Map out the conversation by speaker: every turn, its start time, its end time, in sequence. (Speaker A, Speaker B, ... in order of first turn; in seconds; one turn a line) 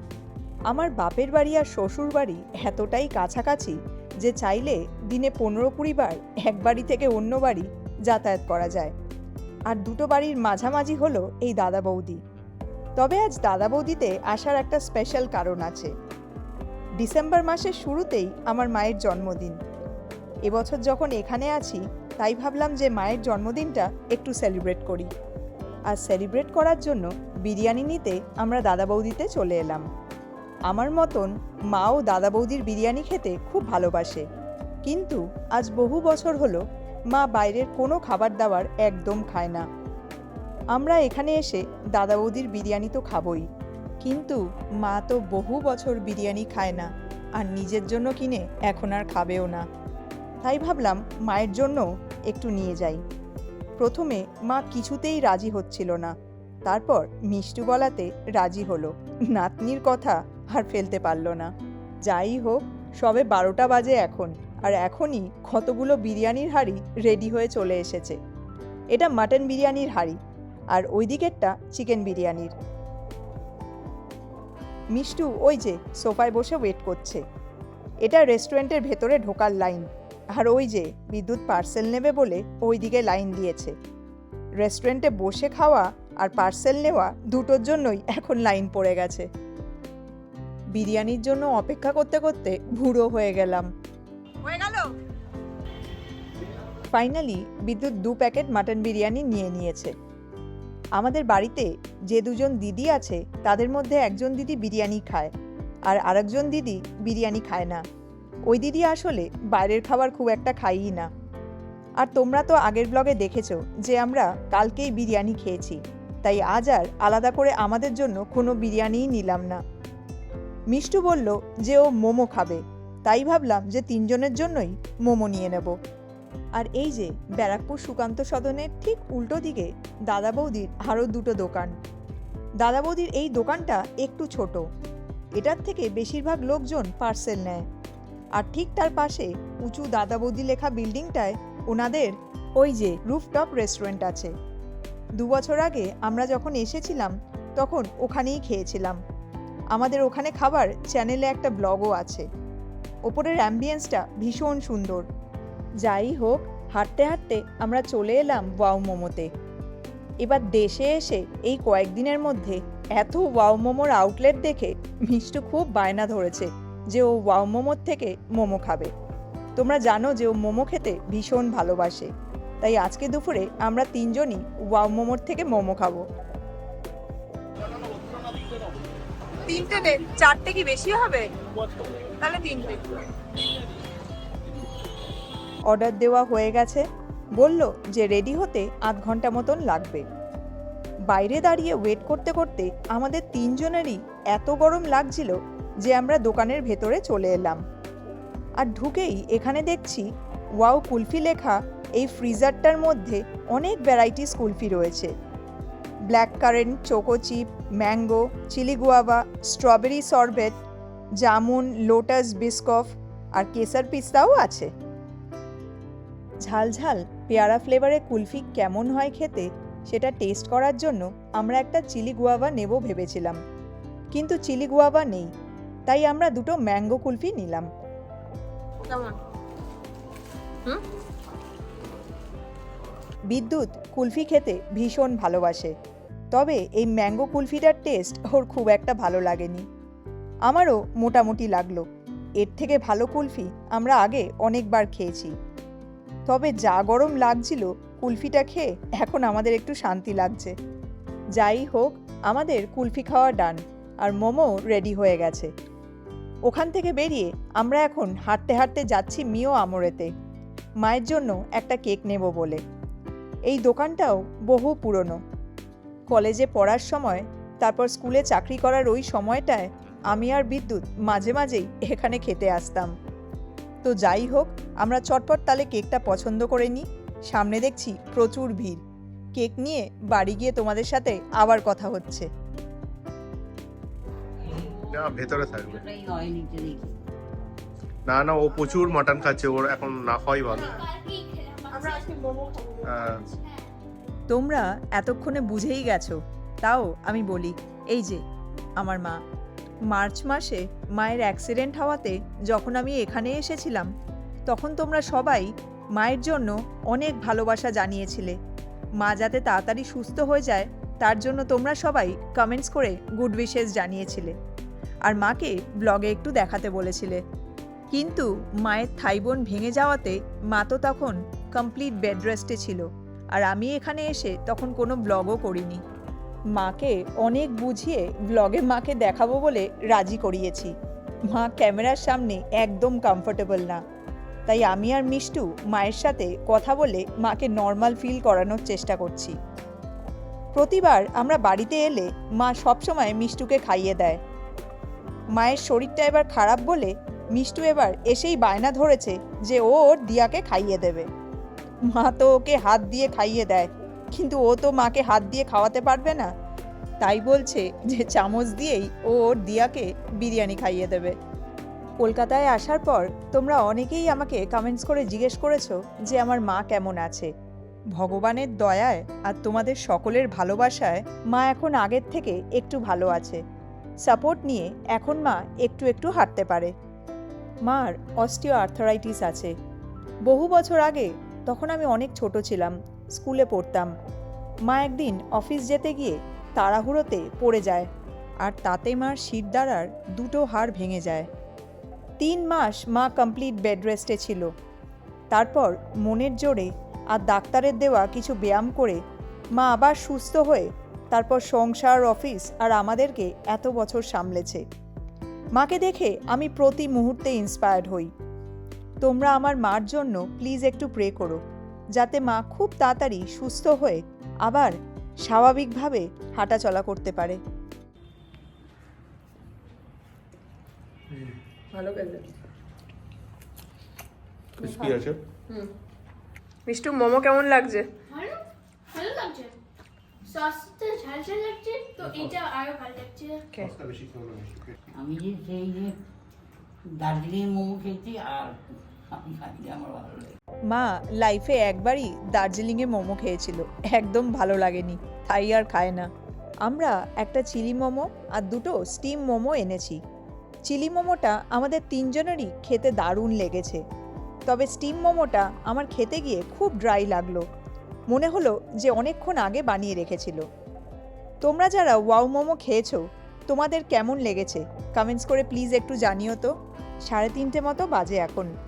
Speaker A: 0.7-8.9
Speaker A: 9.7-12.2
Speaker A: 13.0-15.9
Speaker A: 17.0-19.6
Speaker A: 20.5-25.1
Speaker A: 25.9-29.8
Speaker A: 30.7-34.2
Speaker A: 34.8-39.6
Speaker A: 40.7-43.4
Speaker A: 44.0-49.6
Speaker A: 50.4-53.0
Speaker A: 53.8-56.1
Speaker A: 56.6-61.5
Speaker A: 62.0-68.2
Speaker A: 68.9-70.2
Speaker A: 70.7-72.5
Speaker A: 74.9-77.2
Speaker A: 78.0-83.7
Speaker A: 84.6-89.3
Speaker A: 90.7-93.7
Speaker A: 94.4-94.8
Speaker A: 96.9-99.9
Speaker A: 101.0-105.3
Speaker A: 105.9-107.8
Speaker A: 108.5-111.1
Speaker A: 112.0-119.6
Speaker A: 120.7-125.8
Speaker A: 126.6-131.7
Speaker A: 132.6-134.6
Speaker A: 135.4-137.6
Speaker A: 138.4-144.3
Speaker A: 145.2-149.0
Speaker A: 149.7-152.3
Speaker A: 153.1-155.0
Speaker A: 155.8-159.3
Speaker A: 160.2-168.9
Speaker A: 169.6-172.1
Speaker A: 172.6-176.0
Speaker B: 179.5-181.2
Speaker A: 179.5-181.2
Speaker A: 182.2-182.8
Speaker B: 182.2-182.8
Speaker A: 185.7-186.8
Speaker A: 187.4-190.0
Speaker A: 191.1-197.6
Speaker A: 198.6-200.1
Speaker A: 200.6-205.1
Speaker A: 206.1-210.5
Speaker A: 211.2-214.7
Speaker A: 216.4-223.4
Speaker A: 224.1-225.3
Speaker A: 225.9-227.7
Speaker B: 228.9-229.2
Speaker A: 233.3-235.7
Speaker A: 236.3-239.7
Speaker A: 240.5-241.8
Speaker A: 242.4-245.3
Speaker A: 246.3-250.5
Speaker A: 251.4-255.5
Speaker A: 256.5-260.1
Speaker A: 260.8-262.6
Speaker A: 263.5-265.2
Speaker A: 266.1-272.9
Speaker A: 273.8-278.8
Speaker A: 279.4-282.3
Speaker C: 284.6-286.9
Speaker D: 284.8-285.9
Speaker D: 288.1-290.8
Speaker E: 290.5-292.3
Speaker B: 291.9-293.0
Speaker D: 292.8-293.2
Speaker A: 294.3-298.2
Speaker A: 298.8-299.2
Speaker A: 299.9-303.9
Speaker A: 304.5-308.4
Speaker A: 309.0-314.3
Speaker A: 315.1-317.2
Speaker A: 317.9-325.8
Speaker A: 326.6-330.7
Speaker A: 331.3-333.8
Speaker A: 334.5-339.3
Speaker A: 340.5-344.2
Speaker A: 345.4-351.1
Speaker A: 351.9-356.3
Speaker A: 357.0-361.1
Speaker A: 362.0-367.3
Speaker A: 367.9-373.4
Speaker A: 374.0-376.7
Speaker A: 377.6-379.5
Speaker A: 380.3-383.9
Speaker A: 384.7-387.9
Speaker A: 388.4-391.3
Speaker A: 392.2-394.5
Speaker A: 395.3-399.0
Speaker A: 399.6-404.6
Speaker A: 405.6-408.1
Speaker A: 409.0-411.4
Speaker A: 411.9-417.4
Speaker B: 421.8-422.2
Speaker D: 424.6-425.2
Speaker B: 424.6-424.9
Speaker B: 426.7-427.9
Speaker A: 426.7-427.8
Speaker E: 428.1-429.6
Speaker E: 430.2-433.4
Speaker D: 433.9-434.5
Speaker C: 435.0-435.9
Speaker C: 437.0-438.6
Speaker C: 439.1-440.3
Speaker A: 440.7-446.1
Speaker A: 446.6-450.0
Speaker A: 450.7-453.8
Speaker A: 454.5-457.4
Speaker A: 458.1-460.4
Speaker A: 461.4-466.5
Speaker A: 467.1-468.5